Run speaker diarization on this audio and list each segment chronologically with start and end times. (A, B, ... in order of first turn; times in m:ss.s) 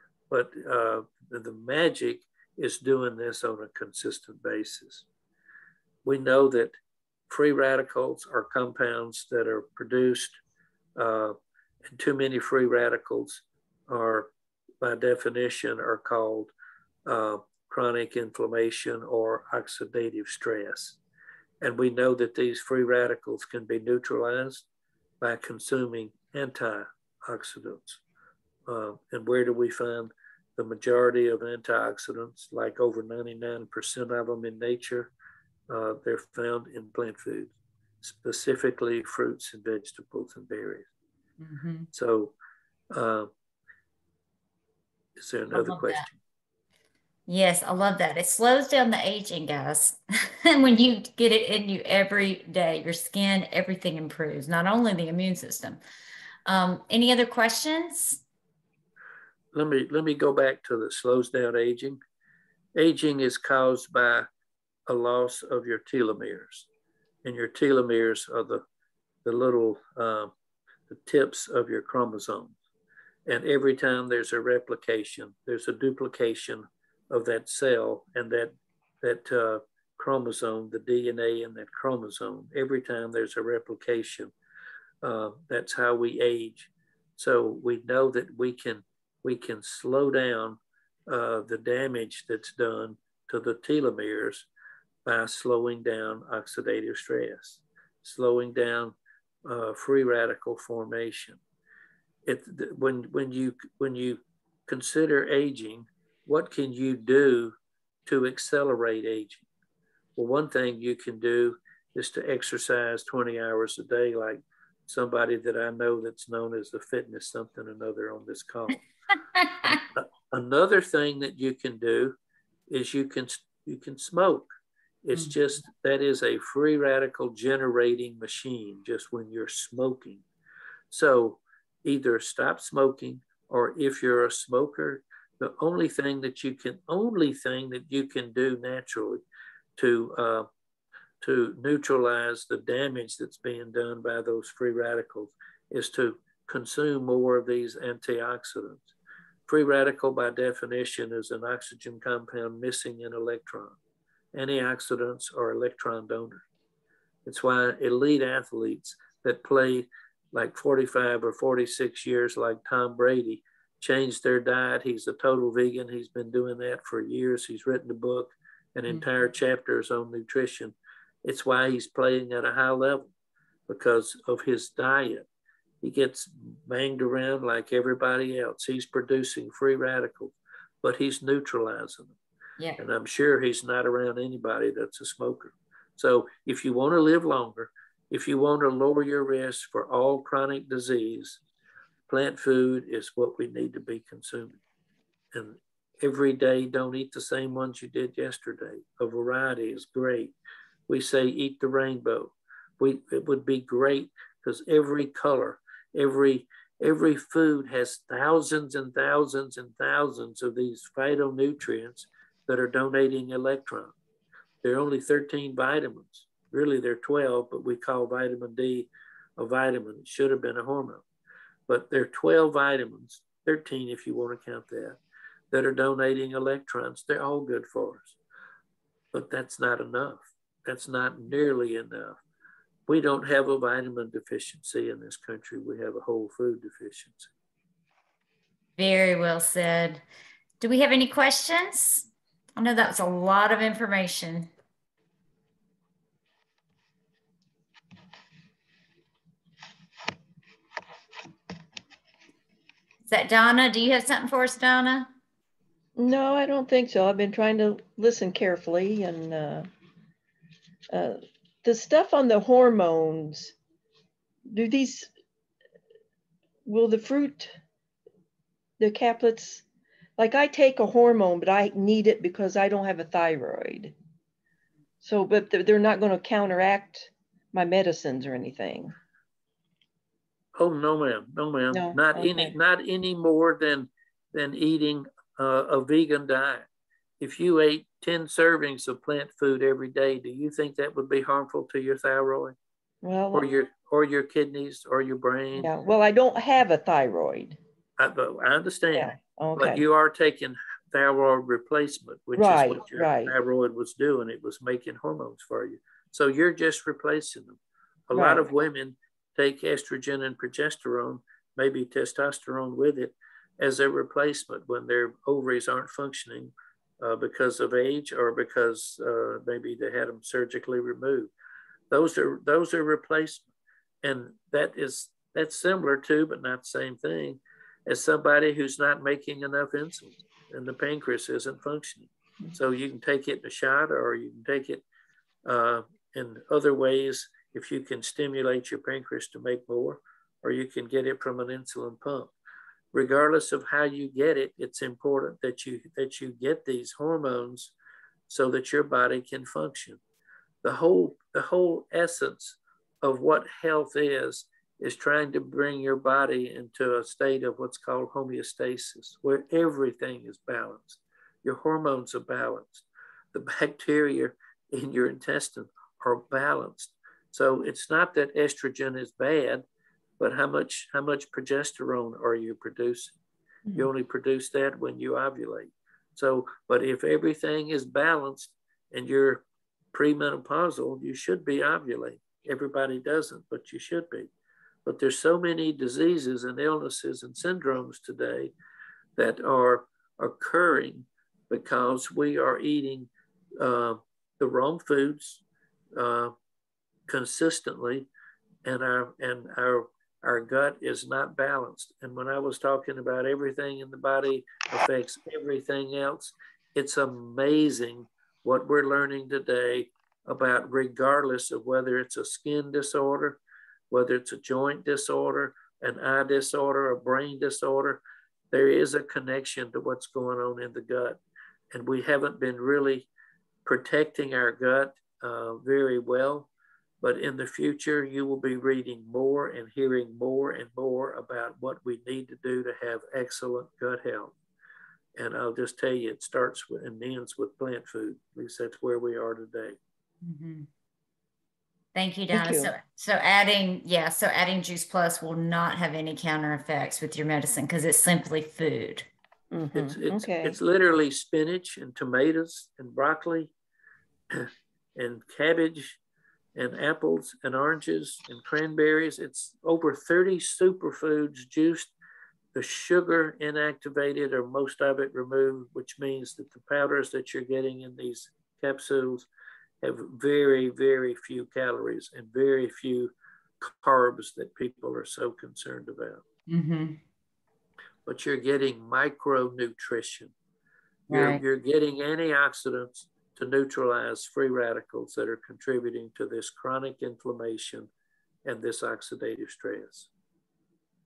0:00.3-0:05.0 A
0:06.0-0:06.7 A
0:07.3-0:10.4 A
0:11.0-0:11.4 A
0:11.9-0:14.3 A
0:14.8-0:16.5 A
0:17.1-0:21.0 A
0:21.6-0:24.6 A
0:25.2-0:28.0 A
0:28.7-0:35.1 A
0:35.7-0:40.9 A
0:41.4-0:41.9 B
0:41.9-0:42.4 A
0:42.9-0:43.3 A
0:45.2-0:46.2 A
0:45.5-0:46.1 B
0:47.3-0:55.8 B
0:56.5-0:58.2 B
0:59.5-1:02.0 A
1:02.8-1:04.3 A
1:04.9-1:06.7 A
1:07.2-1:08.6 A
1:09.2-1:10.3 A
1:10.9-1:12.6 A
1:13.3-1:24.3 A
1:25.0-1:34.5 A
1:35.1-1:38.9 A
1:39.4-1:41.4 A
1:42.3-1:47.5 A
1:48.1-1:49.4 A
1:50.2-1:58.8 A
1:59.4-1:59.7 B
1:59.6-2:02.2 A
2:02.7-2:04.5 A
2:05.0-2:10.2 A
2:10.9-2:19.2 A
2:19.8-2:20.5 A
2:21.2-2:28.9 A
2:29.5-2:33.8 A
2:34.3-2:36.4 A
2:37.3-2:53.1 A
2:53.7-2:55.3 A
2:55.8-3:02.2 A
3:02.8-3:11.4 A
3:12.1-3:14.6 A
3:15.3-3:20.4 A
3:20.9-3:33.9 A
3:34.6-3:41.0 A
3:41.7-3:45.0 A
3:45.5-3:48.2 A
3:49.1-3:52.2 A
3:52.9-3:57.3 A
3:58.8-4:00.0 B
4:00.6-4:04.5 B
4:13.1-4:15.1 B
4:16.0-4:19.7 C
4:20.9-4:23.5 C
4:24.5-4:25.1 C
4:26.6-4:27.6 C
4:28.8-4:29.6 C
4:30.2-4:34.0 C
4:35.0-4:38.9 C
4:40.6-4:46.6 A
4:41.7-4:42.5 C
4:47.2-4:52.6 A
4:53.0-4:53.5 C
4:53.3-4:55.7 A
4:55.6-4:57.6 C
4:58.0-5:07.6 A
4:59.0-4:59.8 C
5:02.4-5:03.4 C
5:08.1-5:21.3 A
5:08.1-5:08.5 C
5:21.9-5:23.4 A
5:24.0-5:34.8 A
5:35.4-5:42.3 A
5:42.9-5:47.7 A
5:48.3-5:50.0 A
5:50.6-6:09.6 A
6:10.2-6:13.2 A
6:13.8-6:19.4 A
6:19.9-6:24.3 A
6:24.9-6:28.5 A
6:29.2-6:35.4 A
6:36.0-6:36.3 A
6:37.1-6:38.1 A
6:38.6-6:53.4 A
6:53.9-6:58.0 A
6:58.5-7:01.2 A
7:01.7-7:03.1 A
7:03.7-7:06.5 A
7:07.0-7:14.3 A
7:15.2-7:19.8 A
7:20.2-7:20.7 B
7:22.0-7:29.1 B
7:22.3-7:22.7 C
7:29.5-7:30.6 C
7:29.8-7:33.5 A
7:34.3-7:36.0 A
7:36.6-7:41.9 A
7:42.6-7:49.3 A
7:49.8-7:56.2 A
7:56.5-7:57.0 B
7:58.1-8:00.3 A
8:01.1-8:01.4 B
8:01.1-8:07.9 A
8:08.4-8:10.1 A